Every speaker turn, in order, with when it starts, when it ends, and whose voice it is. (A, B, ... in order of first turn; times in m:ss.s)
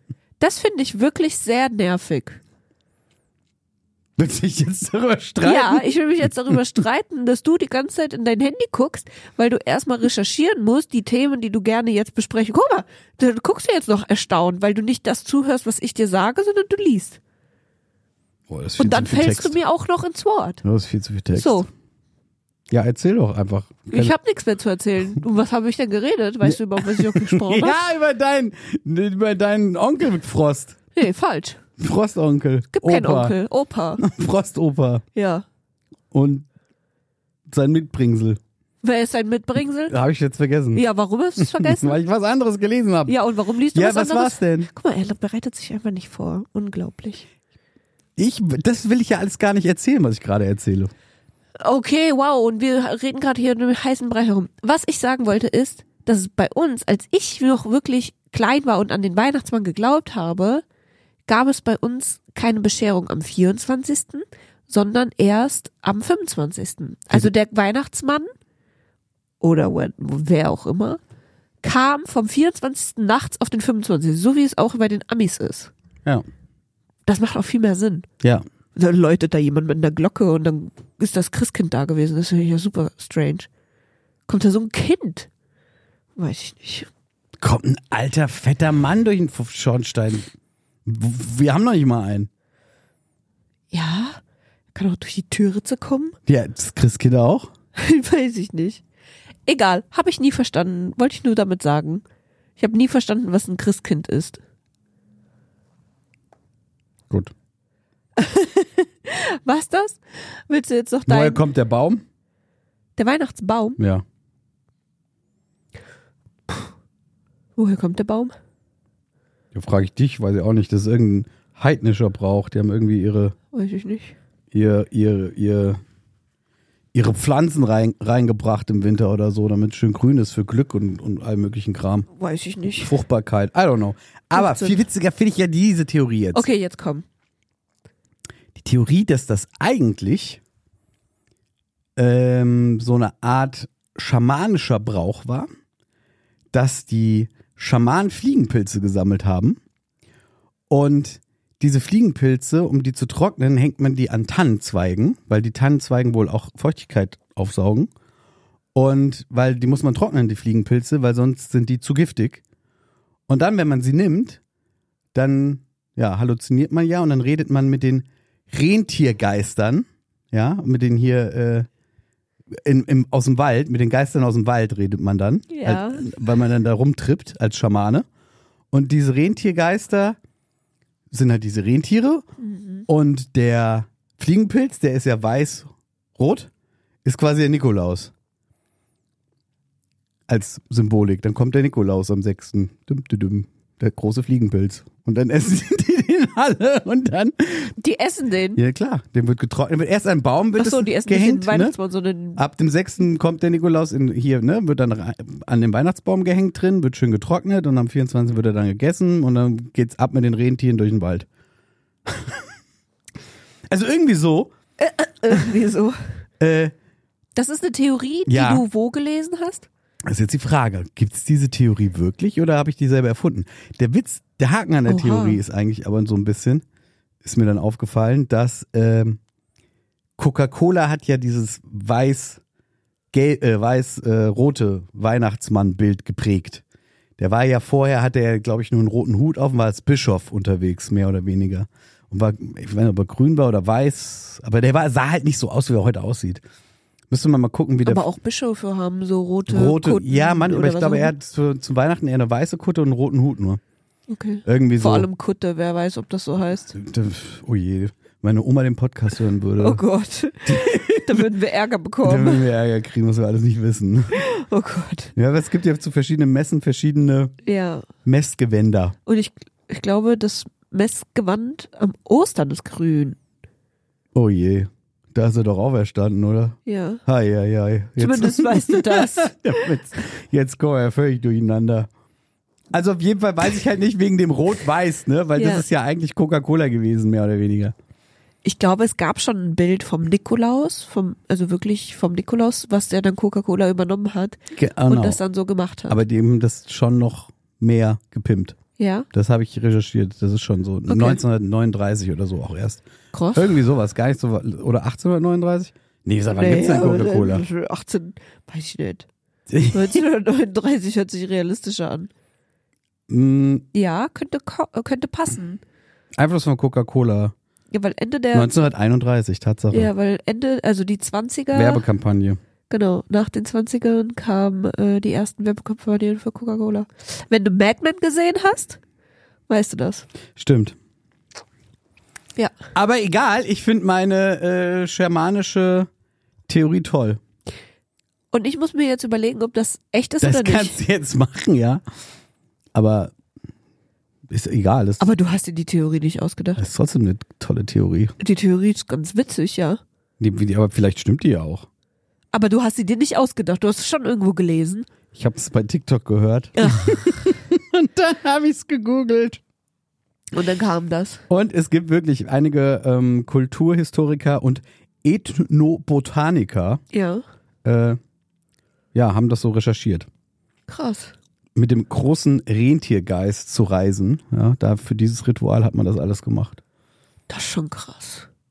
0:00.4-0:02.4 A
0:04.2-0:06.6 B
0:05.4-0:17.2 A
0:18.5-0:19.6 B
0:18.8-0:20.6 A
0:20.6-0:21.7 B
0:21.3-0:21.7 A
0:22.7-0:24.1 B
0:23.9-0:27.8 A
0:26.4-0:30.8 B
0:31.0-0:31.6 A
0:31.8-0:33.4 B
0:32.7-0:34.0 A
0:34.0-0:35.0 B
0:35.2-0:35.4 A
0:36.1-0:36.5 B
0:37.5-0:38.4 B
0:38.8-0:40.0 A
0:39.9-0:40.8 B
0:40.7-0:42.0 A
0:41.4-0:43.2 B
0:43.1-0:47.3 A
0:43.7-0:44.7 B
0:48.2-0:50.9 B
0:51.6-1:00.6 A
1:01.3-1:08.3 A
1:09.4-1:11.0 A
1:11.6-1:15.7 A
1:17.1-1:18.1 A
1:18.8-1:23.5 A
1:24.3-1:25.3 A
1:26.2-1:26.9 A
1:27.4-1:30.3 B
1:30.8-1:32.3 B
1:33.7-1:34.2 A
1:34.7-1:36.2 A
1:36.3-1:37.5 B
1:37.8-1:38.8 A
1:39.5-1:42.0 A
1:42.6-1:44.4 A
1:48.2-1:51.4 A
1:51.1-1:52.0 B
1:53.0-1:53.8 A
1:53.8-1:54.0 B
1:57.6-1:58.4 A
1:59.5-2:03.4 B
2:03.5-2:04.2 A
2:04.5-2:05.8 B
2:06.9-2:12.1 B
2:12.1-2:12.9 A
2:12.7-2:16.5 B
2:14.3-2:14.8 A
2:16.3-2:17.1 A
2:18.6-2:20.4 B
2:22.0-2:25.5 B
2:26.5-2:29.6 B
2:30.7-2:37.9 B
2:38.8-2:42.4 B
2:43.3-2:44.4 B
2:45.1-2:51.7 B
2:52.6-2:58.1 B
2:55.5-2:56.1 A
2:58.7-3:00.2 B
3:01.1-3:02.2 B
3:02.4-3:02.9 A
3:02.9-3:06.5 B
3:07.0-3:08.1 B
3:10.3-3:17.7 B
3:17.8-3:18.6 A
3:18.6-3:21.8 B
3:20.6-3:22.4 A
3:22.4-3:31.3 B
3:32.1-3:32.4 B
3:33.7-3:34.5 B
3:34.8-3:36.0 A
3:36.4-3:36.7 B
3:37.4-3:39.7 A
3:38.3-3:38.7 B
3:40.1-3:46.6 B
3:44.9-3:45.4 A
3:47.2-3:49.2 B
3:50.2-3:52.4 B
3:53.1-3:56.6 B
3:57.2-4:06.4 B
4:07.1-4:08.1 B
4:07.8-4:11.1 A
4:09.5-4:13.6 B
4:14.1-4:16.8 A
4:14.4-4:15.1 B
4:16.7-4:19.8 B
4:19.6-4:22.5 A
4:20.5-4:21.3 B
4:22.0-4:24.2 B
4:24.1-4:25.1 A
4:25.2-4:27.4 B
4:27.4-4:27.9 A
4:28.0-4:29.0 B
4:29.1-4:33.2 A
4:34.2-4:41.9 B
4:36.7-4:37.0 A
4:38.0-4:39.7 A
4:42.7-4:47.7 B
4:45.4-4:45.6 A
4:48.4-4:56.0 A
4:54.5-4:55.2 B
4:55.9-4:58.6 B
4:58.8-4:59.1 A
4:59.1-5:07.5 B
5:00.9-5:01.2 A
5:03.1-5:03.6 A
5:06.4-5:09.1 A
5:09.5-5:10.0 B
5:09.7-5:12.1 A
5:13.1-5:13.6 B
5:13.7-5:15.6 A
5:16.2-5:17.3 B
5:17.7-5:18.5 A
5:18.3-5:19.9 B
5:19.7-5:21.8 A
5:21.5-5:22.4 B
5:22.7-5:28.8 A
5:29.5-5:30.1 A
5:30.4-5:30.8 B
5:32.7-5:35.9 B
5:36.5-5:37.2 B
5:38.3-5:40.8 A
5:40.2-5:41.8 B
5:42.7-5:43.1 B
5:44.3-5:45.1 B
5:45.0-5:46.6 A
5:46.6-5:48.2 B
5:48.2-5:49.8 A
5:50.2-5:51.7 B
5:52.3-5:54.9 A
5:55.1-5:59.4 B
5:56.6-5:57.1 A
6:00.3-6:01.2 A
6:01.3-6:06.8 B
6:06.9-6:07.2 A
6:07.6-6:08.0 B
6:08.9-6:10.1 B
6:10.7-6:11.1 A
6:11.6-6:16.6 B
6:17.3-6:18.3 A